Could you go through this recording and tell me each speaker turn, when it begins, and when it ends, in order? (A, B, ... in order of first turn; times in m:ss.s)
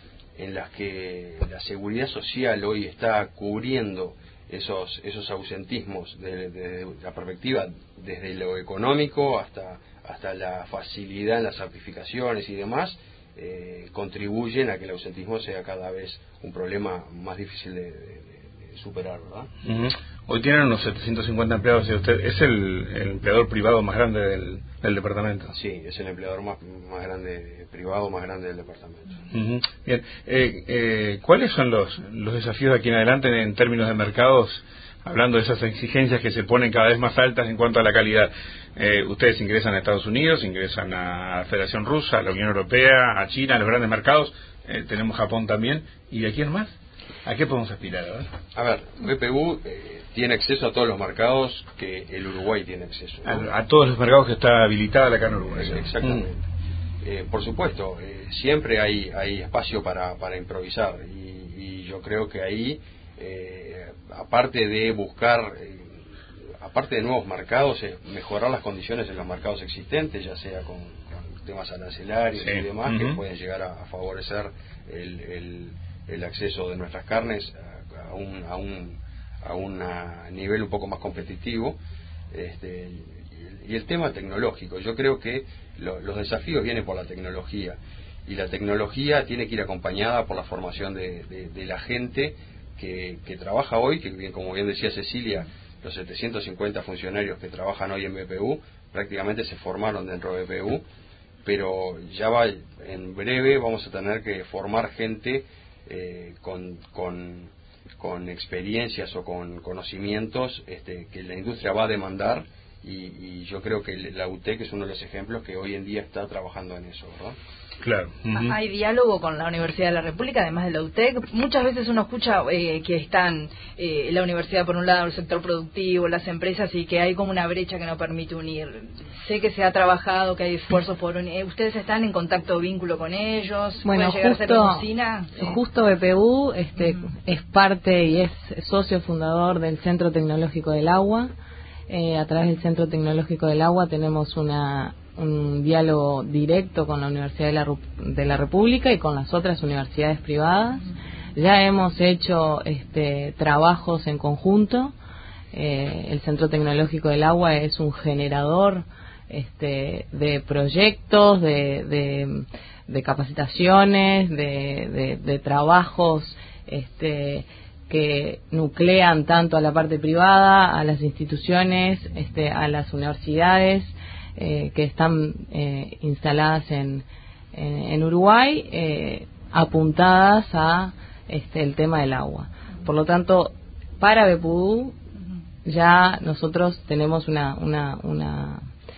0:00.4-0:19.5 A
0:19.6-0:25.5 B
0:25.5-0:29.2 A
0:29.3-0:48.3 B
0:48.6-0:53.4 A
0:53.2-0:56.2 B
0:55.6-0:56.4 A
0:57.0-1:21.8 A
1:12.4-1:13.2 B
1:22.3-1:40.8 A
1:41.4-1:57.4 A
1:57.8-1:58.6 B
1:58.3-2:15.6 C
2:13.8-2:21.3 D
2:21.9-2:34.9 D
2:35.5-3:05.0 D
3:05.6-3:08.6 D